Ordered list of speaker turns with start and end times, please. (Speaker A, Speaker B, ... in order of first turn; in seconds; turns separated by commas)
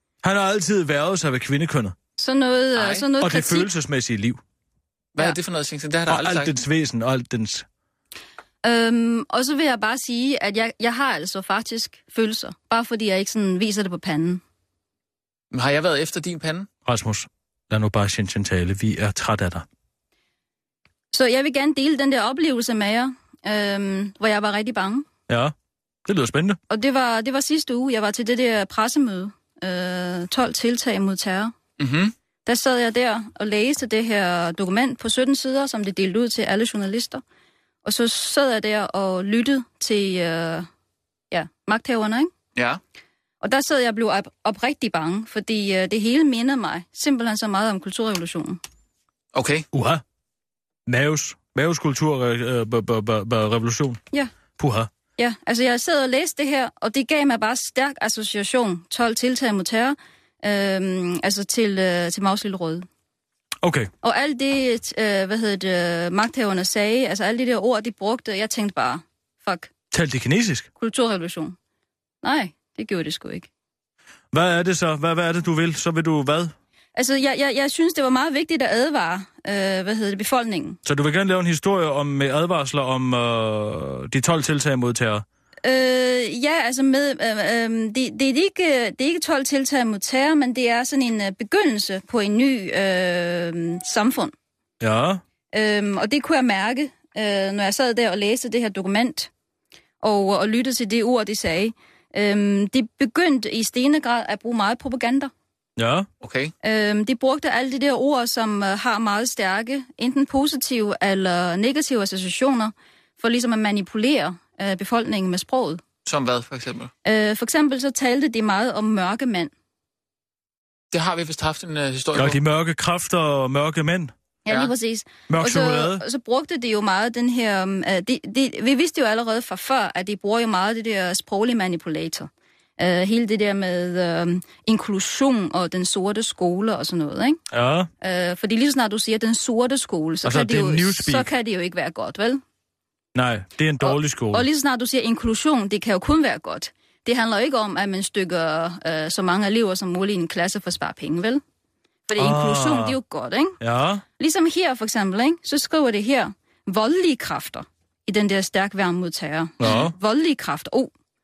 Speaker A: 0.2-2.0, Speaker B: 2.2-3.7, Speaker C: 2.8-3.1, Speaker A: 3.2-4.4, Speaker C: 5.2-6.6, Speaker A: 6.1-7.7, Speaker B: 8.6-14.4, Speaker C: 15.5-16.7, Speaker A: 16.9-19.7, Speaker B: 21.1-25.1, Speaker A: 25.3-25.5, Speaker A: 26.1-26.6, Speaker B: 26.7-31.6, Speaker C: 31.8-32.1, Speaker B: 32.5-37.2, Speaker B: 37.8-40.7, Speaker B: 41.3-42.3, Speaker C: 42.5-42.8, Speaker B: 43.4-48.6, Speaker C: 49.3-49.7, Speaker A: 49.7-50.0, Speaker A: 50.9-54.0, Speaker A: 54.6-54.9, Speaker B: 55.2-62.9, Speaker A: 63.6-63.9, Speaker B: 64.0-69.7, Speaker A: 69.9-70.7, Speaker B: 70.8-71.6, Speaker B: 72.2-73.5, Speaker A: 74.3-76.5, Speaker B: 77.0-80.8, Speaker A: 80.8-85.2, Speaker B: 85.6-94.3, Speaker A: 94.8-95.2, Speaker B: 95.5-99.3, Speaker B: 100.0-105.3, Speaker A: 105.8-106.1, Speaker C: 106.2-106.5, Speaker B: 106.6-115.8, Speaker C: 116.0-116.9, Speaker B: 117.0-119.5, Speaker C: 120.9-122.4, Speaker A: 122.2-124.1, Speaker B: 124.5-137.4, Speaker C: 124.5-124.7, Speaker A: 125.3-126.0, Speaker A: 137.5-137.9, Speaker B: 138.0-142.4, Speaker A: 140.2-141.3, Speaker A: 143.1-144.5, Speaker B: 143.8-151.4, Speaker B: 152.1-153.6, Speaker A: 152.2-153.0, Speaker A: 153.6-154.0, Speaker B: 154.2-160.9, Speaker A: 159.6-159.9